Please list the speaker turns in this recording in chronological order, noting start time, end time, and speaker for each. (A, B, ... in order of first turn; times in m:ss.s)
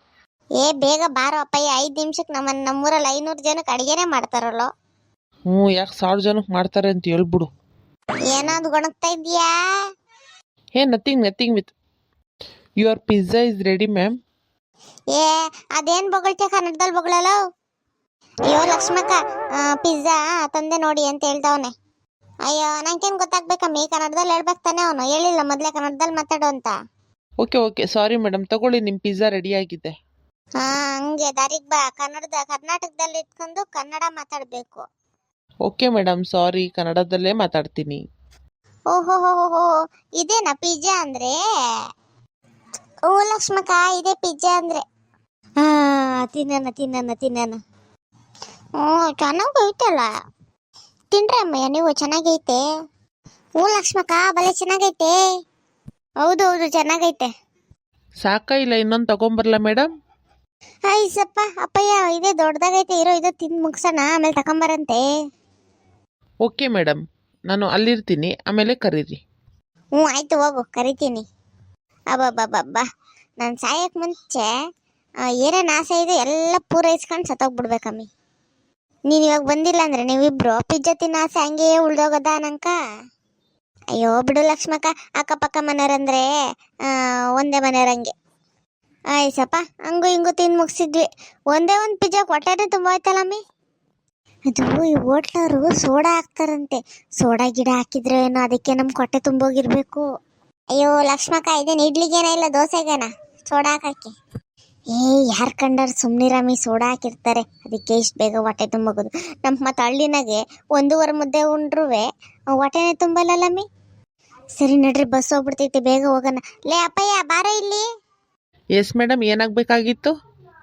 0:00.6-0:04.7 A
0:05.5-0:07.5 B
0:08.3-0:09.5 A
0:10.8-0:11.7 B
0:12.8-0:14.1 B
0:15.1-0:17.3 A
0:18.5-0:21.7 A
0:22.5-0:26.7 A
0:27.4-0:29.9 B
0:30.6-0:34.8 A
0:35.6-0:38.0 B
0:38.9-0:41.3 A
0:43.1-0:44.8 A
0:45.6-0:47.6 A
0:48.8-0:50.1 A
0:51.1-0:52.6 A
0:53.6-0:55.2 A
0:56.2-0:57.3 A
0:58.2-0:59.9 B
1:00.9-1:05.0 A
1:06.4-1:09.2 B
1:10.0-1:11.2 A
1:12.1-1:12.8 A
1:13.4-1:14.5 A
1:15.4-1:18.1 A
1:19.1-1:22.7 A
1:24.0-1:26.3 A
1:26.9-1:28.1 A
1:29.2-1:33.4 A
1:34.5-1:40.0 A
1:40.8-1:44.1 A
1:44.9-1:52.0 A
1:52.6-1:53.6 A
1:54.6-1:57.8 A
1:58.8-2:00.1 B